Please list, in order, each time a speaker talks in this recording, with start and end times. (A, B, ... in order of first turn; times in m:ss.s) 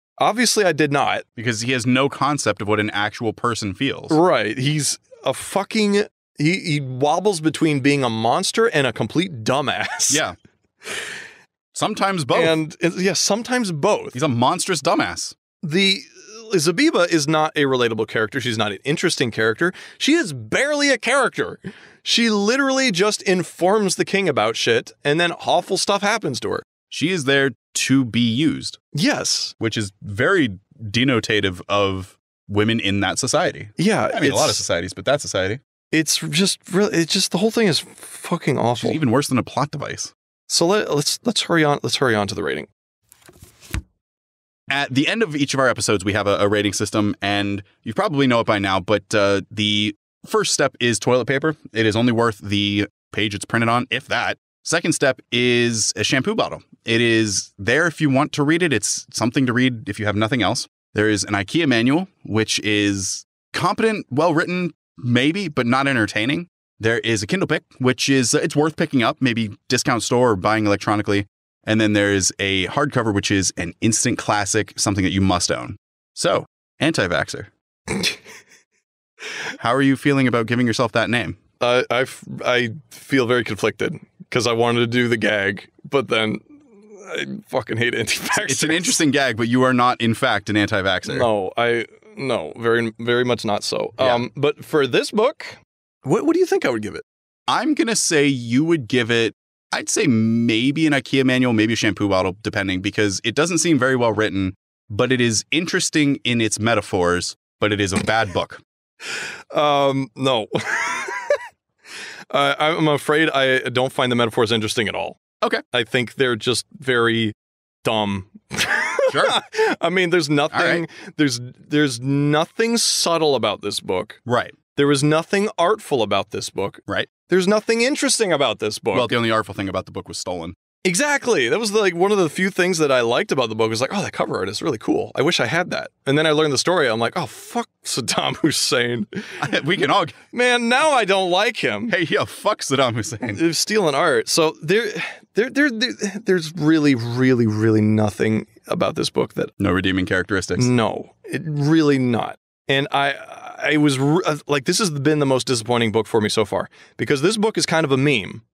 0:00.2-0:01.2 A
0:01.4-0:04.2 B
0:04.1-0:10.2 A
0:10.1-0:10.4 B
0:11.7-0:12.6 B
0:12.3-0:14.2 A
0:14.1-0:15.4 B
0:15.6-0:26.7 A
0:26.9-0:28.8 B
0:28.9-0:29.6 A
0:29.6-0:35.6 B
0:33.8-0:34.6 A
0:35.9-0:39.0 A
0:38.8-0:40.1 B
0:40.5-0:42.7 A
0:44.7-1:17.5 B
1:19.6-1:21.4 B
1:21.6-1:29.0 A
1:28.4-1:31.3 B
1:31.1-1:37.0 A
1:34.0-1:34.2 B
1:37.5-1:48.6 B
1:49.5-1:51.4 A
1:52.3-1:55.2 A
1:55.7-2:04.2 A
1:59.1-1:59.4 B
2:00.5-2:00.8 B
2:04.3-2:04.5 B
2:04.8-2:09.1 A
2:08.9-2:10.6 B
2:10.8-2:19.5 A
2:19.4-2:20.2 B
2:20.3-2:22.0 A
2:21.9-2:23.4 B
2:23.3-2:29.5 A
2:29.6-2:30.7 B
2:30.6-2:38.4 A